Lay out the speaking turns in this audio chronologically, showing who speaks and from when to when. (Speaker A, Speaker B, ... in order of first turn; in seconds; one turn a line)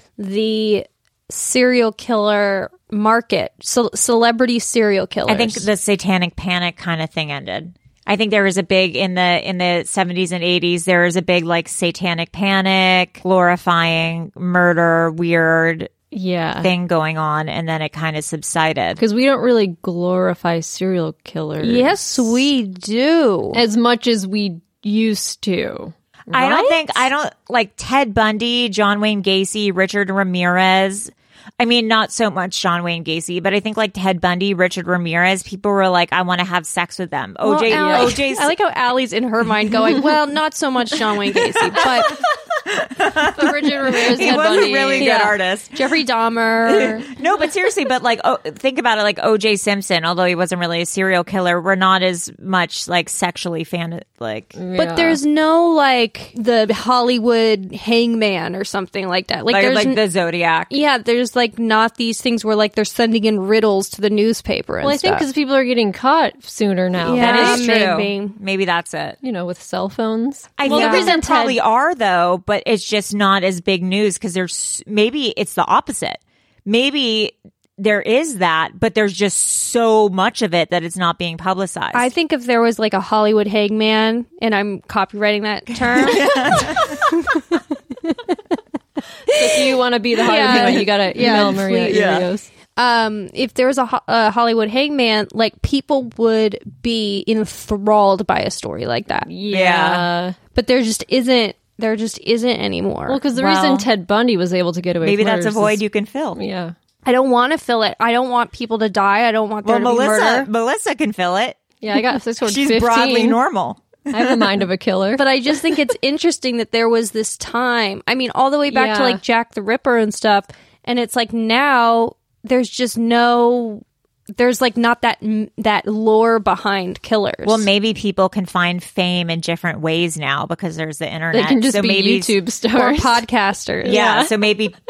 Speaker A: 0.2-5.7
Speaker B: 5.3-15.9
Speaker C: 16.1-16.7
Speaker B: 16.6-19.0
Speaker C: 19.0-22.5
Speaker A: 21.6-23.6
Speaker C: 23.5-27.1
Speaker B: 26.3-38.5
Speaker A: 37.4-42.1
Speaker C: 37.7-38.2
Speaker C: 41.7-42.2
Speaker B: 42.7-45.7
Speaker C: 43.4-45.2
Speaker A: 44.2-47.1
Speaker B: 46.7-54.6
Speaker C: 54.5-55.2
Speaker A: 54.8-60.0
Speaker B: 59.5-60.7
Speaker A: 60.7-65.3
Speaker C: 64.8-67.7
Speaker A: 67.0-68.4
Speaker B: 67.1-69.2
Speaker C: 69.2-71.6
Speaker B: 70.6-82.1
Speaker A: 70.7-71.2
Speaker A: 81.9-87.4
Speaker B: 85.7-86.9
Speaker A: 89.3-92.1
Speaker C: 89.3-92.5
Speaker B: 91.9-92.3
Speaker A: 92.8-99.3
Speaker C: 99.3-100.4
Speaker B: 99.5-100.0
Speaker A: 100.5-103.2
Speaker C: 103.1-105.8
Speaker B: 103.3-103.9
Speaker B: 105.0-106.4
Speaker C: 106.4-106.8
Speaker A: 107.0-110.5
Speaker B: 109.6-111.6
Speaker C: 111.8-113.4
Speaker B: 112.4-114.4
Speaker C: 114.1-115.3
Speaker A: 115.2-123.8
Speaker C: 118.7-119.2
Speaker A: 124.3-127.7
Speaker B: 127.5-132.4
Speaker C: 131.3-133.3
Speaker A: 132.7-134.0
Speaker C: 133.8-134.3
Speaker B: 133.8-134.7